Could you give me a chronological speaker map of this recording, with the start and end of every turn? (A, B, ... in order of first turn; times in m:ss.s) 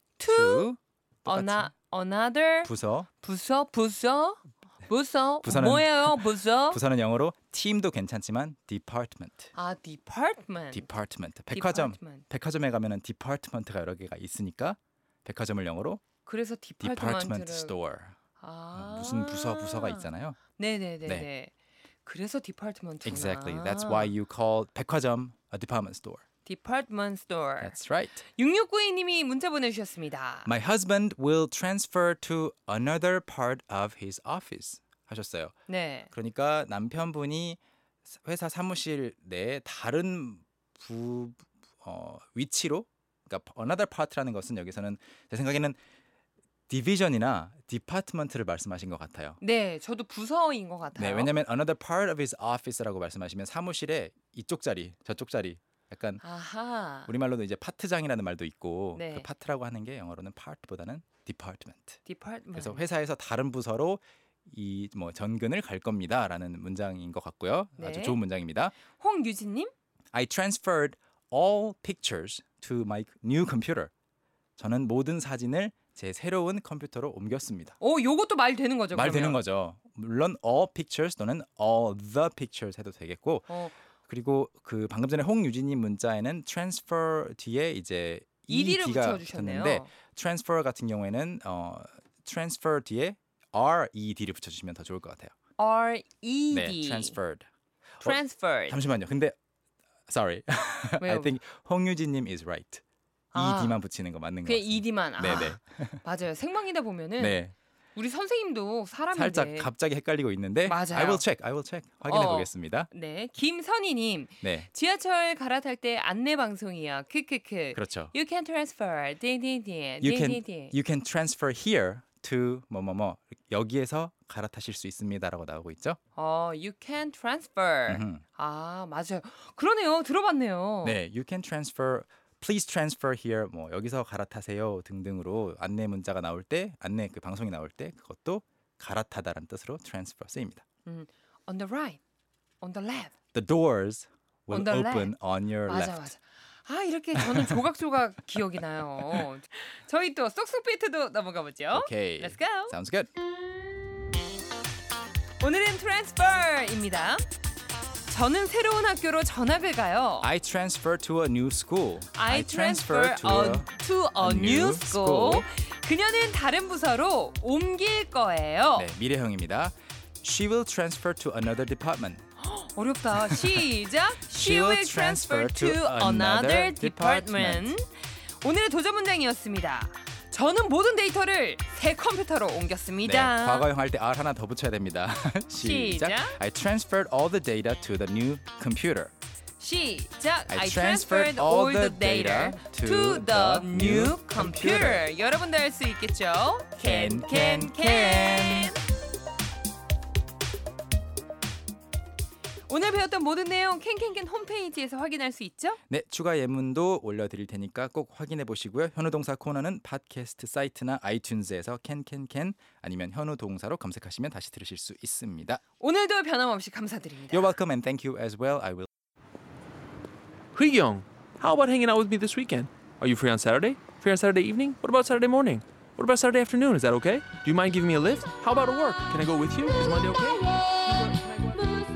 0:00.2-0:00.7 A
0:00.3-0:01.7 B
0:01.2-0:06.8 A
0:02.6-0:03.1 B
0:05.4-0:09.5 B
0:09.5-0:10.9 A
0:10.7-0:16.0 B
0:11.5-0:12.2 A
0:16.2-0:17.8 A
0:16.8-0:18.2 B
0:18.4-0:21.5 A
0:18.7-0:20.4 B
0:22.0-0:24.1 A
0:23.0-0:26.2 B
0:26.4-0:30.5 A
0:27.6-0:28.2 B
0:30.4-0:35.5 B
0:35.7-0:36.1 A
0:36.1-0:45.8 B
0:46.7-0:49.4 B
0:49.4-0:51.3 A
0:51.0-0:56.2 B
0:56.2-0:57.1 A
0:57.1-1:02.0 B
0:58.9-0:59.3 A
1:02.0-1:02.8 A
1:02.6-1:08.8 B
1:07.8-1:08.2 A
1:08.9-1:09.7 A
1:10.1-1:13.9 B
1:14.6-1:17.8 B
1:17.8-1:19.4 A
1:18.9-1:35.3 B
1:23.5-1:23.7 A
1:28.5-1:29.9 A
1:35.6-1:37.2 A
1:36.5-1:37.5 B
1:38.0-1:39.4 B
1:38.0-1:38.8 A
1:40.1-1:42.8 B
1:41.0-1:41.4 A
1:43.3-1:43.8 A
1:43.3-1:46.0 B
1:44.4-1:47.4 A
1:47.2-1:47.5 B
1:47.9-1:49.7 A
1:49.1-1:52.9 B
1:50.6-1:51.2 A
1:52.0-2:00.7 A
1:54.4-1:54.7 B
1:57.7-1:58.1 B
2:00.0-2:06.0 B
2:06.2-2:11.0 A
2:07.9-2:08.2 B
2:10.8-2:20.6 B
2:20.8-2:22.0 A
2:22.6-2:23.1 A
2:23.3-2:26.1 B
2:24.5-2:25.1 A
2:25.6-2:32.7 A
2:27.1-2:27.6 B
2:31.7-2:33.1 B
2:35.4-2:37.2 A
2:38.1-2:40.3 A
2:40.2-2:45.4 B
2:42.1-2:48.9 A
2:48.8-2:52.2 B
2:52.4-3:03.7 A
2:53.1-2:53.6 B
2:54.3-2:57.7 B
3:03.0-3:09.1 B
3:05.6-3:06.4 A
3:09.6-3:18.8 A
3:10.5-3:15.1 B
3:16.8-3:18.8 B
3:22.7-3:25.8 A
3:25.9-3:35.6 B
3:35.8-3:37.5 A
3:37.3-3:38.9 B
3:40.5-3:51.8 C